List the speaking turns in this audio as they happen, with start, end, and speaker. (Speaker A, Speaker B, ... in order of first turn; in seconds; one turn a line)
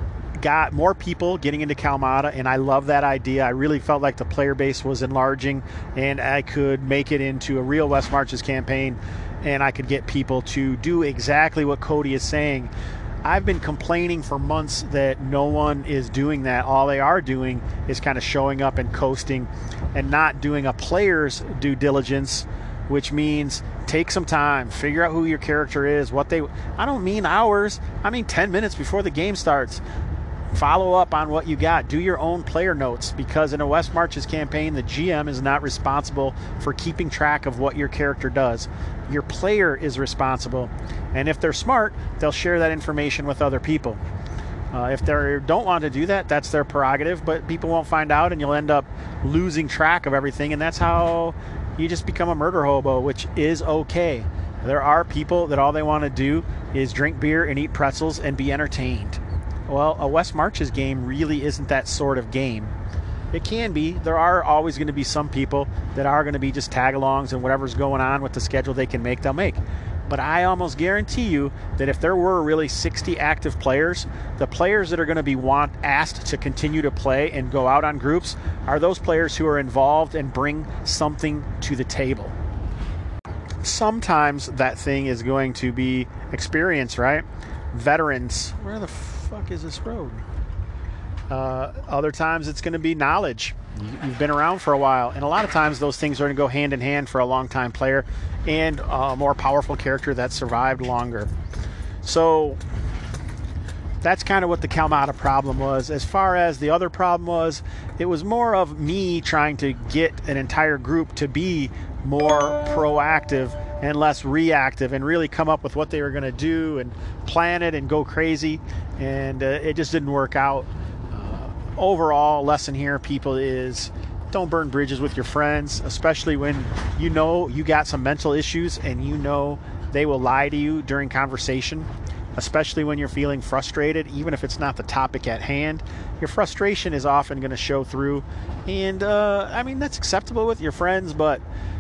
Speaker A: 0.4-12.7
Speaker A: 13.2-29.8
Speaker A: 30.5-44.0
Speaker A: 44.7-62.7
Speaker A: 63.3-82.4
Speaker A: 83.6-90.2
Speaker A: 91.3-101.3
Speaker A: 102.0-102.6
Speaker A: 104.0-141.4